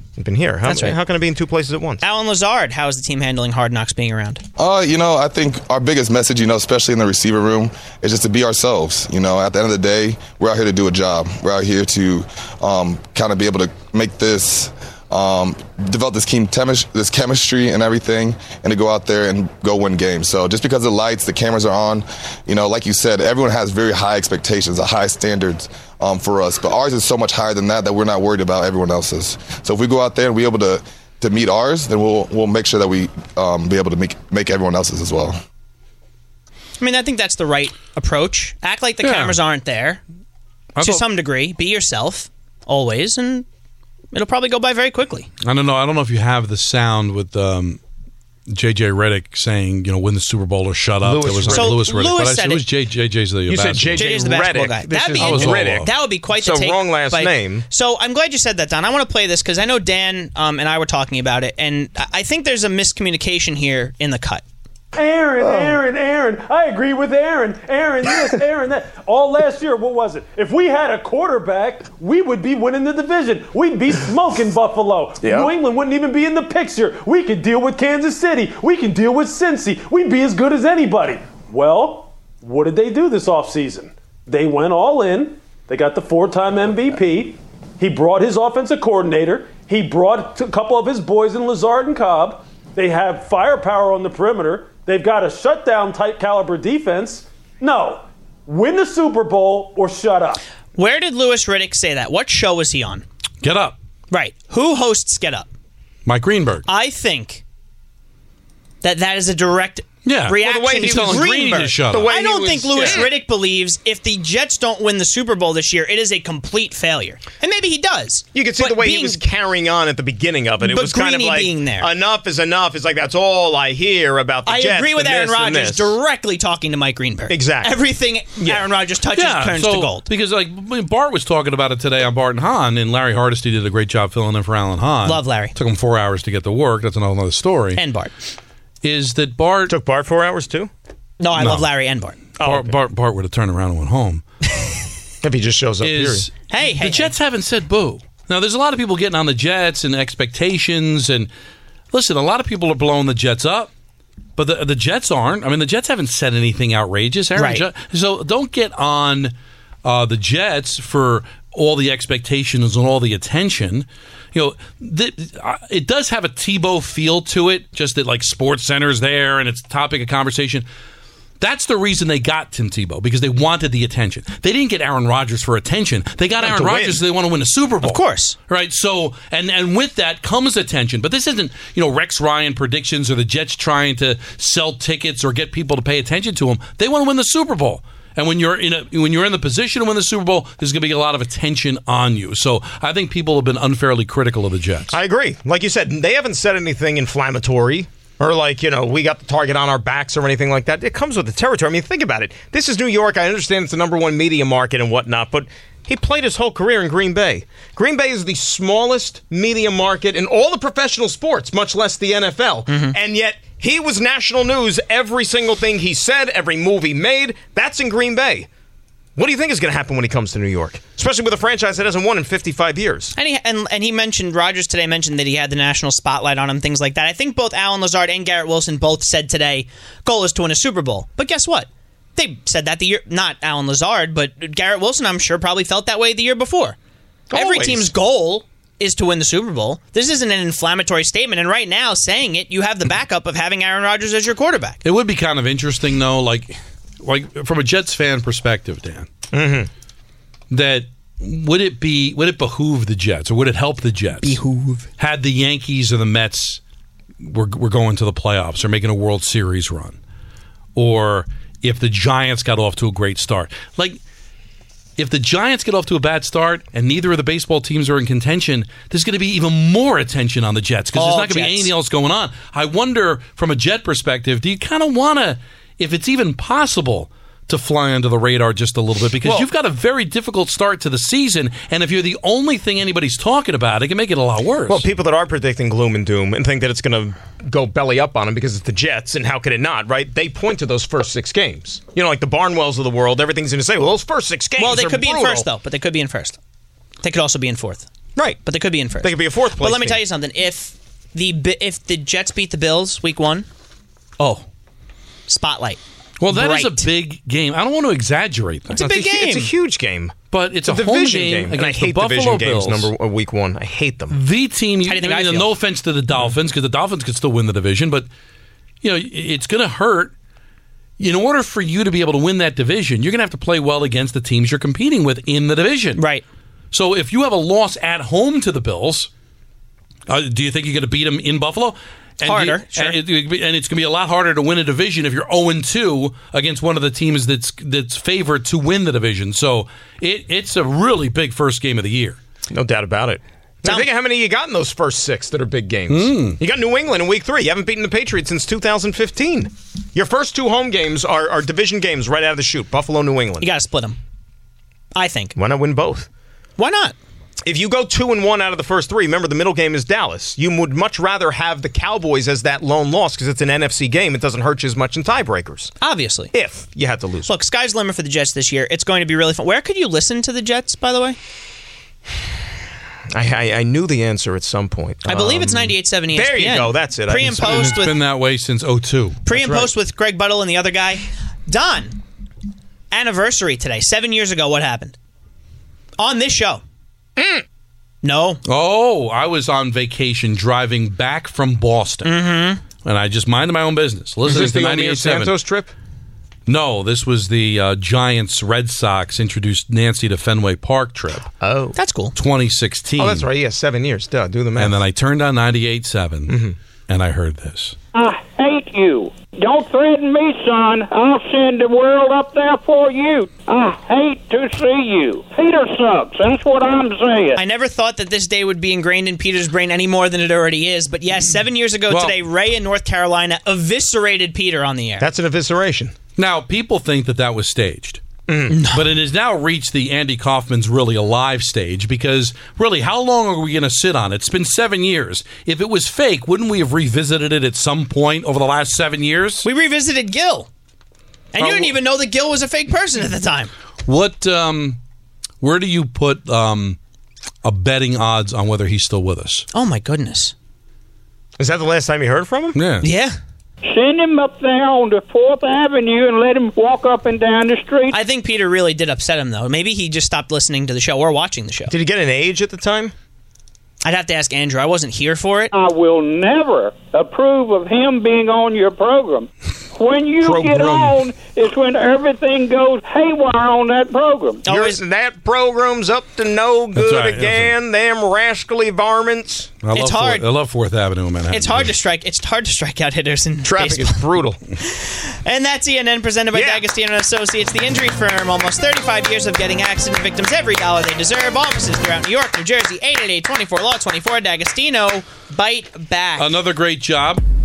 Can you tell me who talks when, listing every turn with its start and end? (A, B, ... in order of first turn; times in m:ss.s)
0:00.2-0:02.0 A
0:00.6-0:01.0 B
0:02.0-0:04.4 B
0:04.6-0:35.4 C
0:36.8-0:40.0 B
0:39.0-0:39.4 D
0:40.8-0:41.1 D
0:40.8-0:43.5 B
0:44.1-0:45.3 B
0:45.4-0:47.8 D
0:48.5-0:54.0 D
0:51.0-0:51.8 A
0:51.5-0:52.6 B
0:53.5-0:57.7 A
0:54.0-1:04.4 B
0:55.2-0:55.9 D
1:05.0-1:40.4 E
1:05.4-1:05.8 A
1:15.2-1:15.5 A
1:40.8-1:43.0 B
1:43.4-1:43.8 D
1:44.1-1:45.5 B
1:46.1-1:46.6 D
1:46.7-1:47.4 B
1:48.8-1:59.2 B
1:50.0-1:52.1 D
1:50.4-1:53.1 A
1:52.8-1:53.0 D
1:58.3-2:06.0 A
2:00.7-2:01.9 B
2:04.5-2:10.0 B
2:07.3-2:07.8 A
2:08.4-2:08.7 A
2:09.1-2:17.8 D
2:15.0-2:15.5 B
2:17.8-2:18.1 B
2:18.8-2:19.7 D
2:19.7-2:20.7 A
2:21.2-2:22.2 B
2:21.4-2:21.7 D
2:22.4-2:22.7 A
2:22.4-2:24.2 D
2:25.2-2:26.3 A
2:25.8-2:31.3 D
2:26.5-2:27.1 B
2:31.9-2:33.7 D
2:34.4-2:39.3 D
2:37.4-2:37.6 B
2:39.8-2:50.6 D
2:51.4-3:15.0 D
2:56.4-2:57.0 A
2:57.8-2:58.4 B
3:14.9-3:38.5 A
3:32.7-3:33.0 B
3:39.2-3:43.1 A
3:43.2-3:56.8 B
3:57.3-3:57.9 A
3:57.3-4:04.8 B
4:04.8-4:09.1 D
4:09.3-4:09.7 A
4:10.5-4:14.4 D
4:14.2-4:14.9 B
4:15.0-4:16.6 D
4:17.2-4:20.0 D
4:20.8-4:24.0 D
4:25.0-4:44.8 D
4:31.0-4:31.7 B
4:44.7-4:55.5 A
4:54.6-4:56.4 B
4:57.0-4:57.8 B
4:58.2-4:58.4 A
4:58.4-5:03.5 B
4:59.0-5:00.0 A
5:04.2-5:04.4 B
5:05.3-5:05.8 B
5:06.2-5:08.8 D
5:06.3-5:06.9 B
5:08.7-5:09.5 B
5:08.7-5:14.2 A
5:10.3-5:12.9 D
5:14.1-5:18.1 D
5:14.9-5:15.5 B
5:18.8-5:20.1 D
5:21.0-5:26.0 D
5:26.0-5:26.2 B
5:26.7-5:29.1 D
5:30.1-5:42.2 D
5:32.2-5:33.0 B
5:42.5-5:53.5 A
5:43.6-5:43.9 B
5:45.9-5:46.4 D
5:53.4-5:54.0 B
5:54.9-5:55.4 B
5:55.4-5:56.1 A
5:56.6-5:57.0 B
5:57.4-6:05.8 A
6:05.8-6:06.3 B
6:06.3-6:07.3 A
6:07.3-6:11.2 B
6:13.1-6:17.8 A
6:15.0-6:18.0 B
6:17.4-6:19.2 D
6:19.3-6:22.0 B
6:19.3-6:19.7 A
6:22.9-6:25.0 B
6:26.0-6:26.6 B
6:27.2-6:27.4 A
6:28.0-6:28.4 B
6:28.4-6:35.4 D
6:32.0-6:32.6 B
6:34.3-6:35.7 A
6:36.5-6:41.3 D
6:41.4-6:41.8 A
6:41.8-6:42.2 B
6:42.2-6:43.3 D
6:43.0-6:44.8 A
6:44.6-6:47.8 D
6:46.3-6:46.6 A
6:47.9-6:57.4 F
6:57.4-7:05.0 B
7:01.9-7:02.2 D
7:05.0-7:05.9 A
7:06.2-7:08.0 D
7:08.3-7:08.6 A
7:08.5-7:08.8 B
7:08.7-7:19.5 D
7:19.4-7:20.5 B
7:21.3-7:23.5 B
7:21.4-7:21.7 A
7:23.9-7:24.8 D
7:25.4-7:26.8 D
7:27.4-7:29.4 D
7:29.5-7:30.3 B
7:31.4-7:32.6 A
7:32.6-7:32.9 D
7:32.8-7:33.2 B
7:33.6-7:37.9 F
7:37.9-7:41.7 B
7:41.7-7:42.9 A
7:43.8-7:45.5 B
7:45.5-7:54.4 F
7:50.2-7:51.0 A
7:54.4-7:54.8 B
7:54.5-7:59.5 A
7:56.8-7:57.5 D
7:59.6-8:01.7 D
7:59.7-8:00.3 B
8:01.3-8:04.0 B
8:03.4-8:04.4 A
8:04.6-8:16.3 B
8:06.3-8:06.6 A
8:16.2-8:17.2 D